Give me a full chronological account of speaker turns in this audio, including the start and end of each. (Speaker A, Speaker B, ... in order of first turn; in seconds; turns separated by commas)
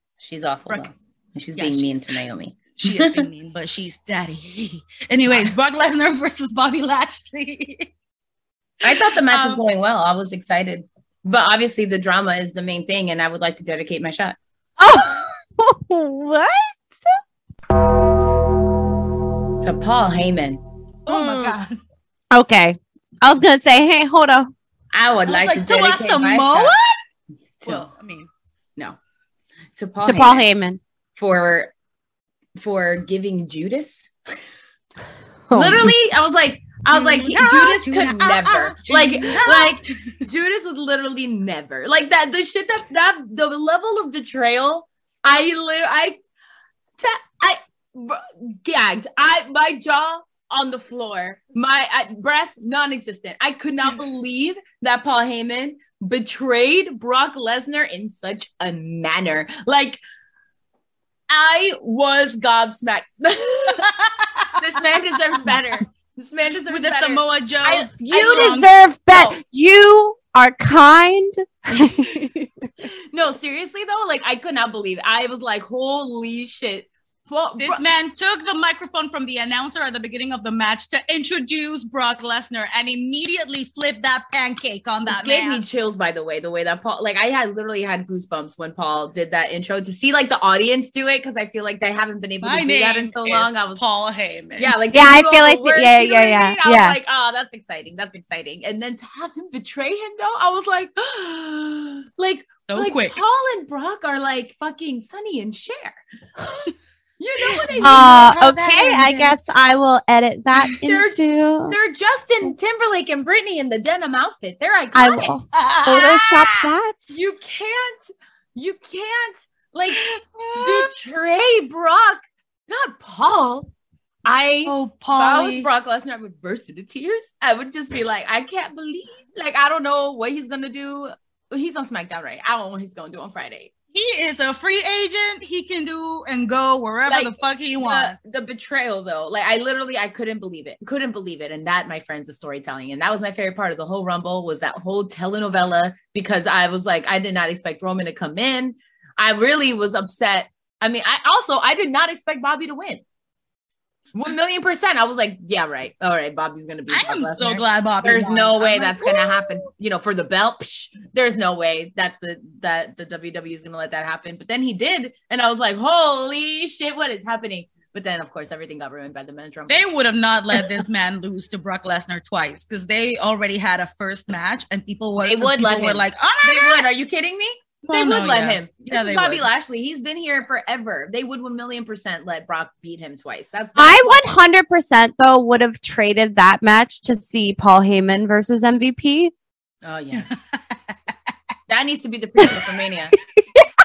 Speaker A: 0.2-3.3, Speaker B: 1.6-1.9, Speaker B: 2.8-7.9, Speaker A: 8.8-14.4, Speaker B: 9.1-9.6, Speaker C: 14.8-16.9, Speaker A: 19.6-20.6, Speaker B: 21.1-21.8, Speaker C: 21.1-21.6, Speaker C: 22.3-24.5, Speaker A: 24.9-26.8, Speaker B: 25.3-26.9, Speaker A: 27.6-27.9, Speaker B: 27.6-28.3, Speaker A: 29.8-30.5, Speaker C: 30.0-30.8, Speaker A: 31.2-31.7, Speaker A: 32.6-34.1, Speaker C: 35.5-35.9, Speaker A: 35.5-46.2, Speaker B: 36.9-40.1, Speaker A: 47.0-60.0, Speaker A: 61.3-63.9, Speaker B: 63.8-64.5, Speaker A: 64.6-68.6, Speaker B: 66.7-68.7, Speaker C: 68.1-72.3, Speaker A: 69.1-69.4, Speaker A: 73.1-77.8, Speaker B: 77.6-85.6, Speaker A: 85.1-93.8, Speaker B: 92.4-94.8, Speaker A: 94.6-106.0, Speaker C: 94.9-97.0, Speaker B: 102.7-103.2, Speaker A: 107.2-108.2, Speaker B: 107.5-109.4, Speaker C: 107.8-111.8, Speaker A: 110.8-115.3, Speaker C: 115.0-117.2, Speaker B: 115.5-116.7, Speaker A: 117.1-123.7, Speaker B: 119.9-120.9, Speaker A: 124.2-133.7, Speaker B: 124.7-125.7, Speaker B: 133.9-138.2, Speaker A: 137.1-153.0, Speaker A: 154.2-169.9, Speaker B: 156.9-159.7, Speaker B: 169.7-176.9, Speaker A: 175.2-184.3, Speaker B: 177.8-179.5, Speaker C: 183.8-189.3, Speaker A: 189.8-190.4, Speaker A: 191.7-193.1, Speaker C: 193.4-193.7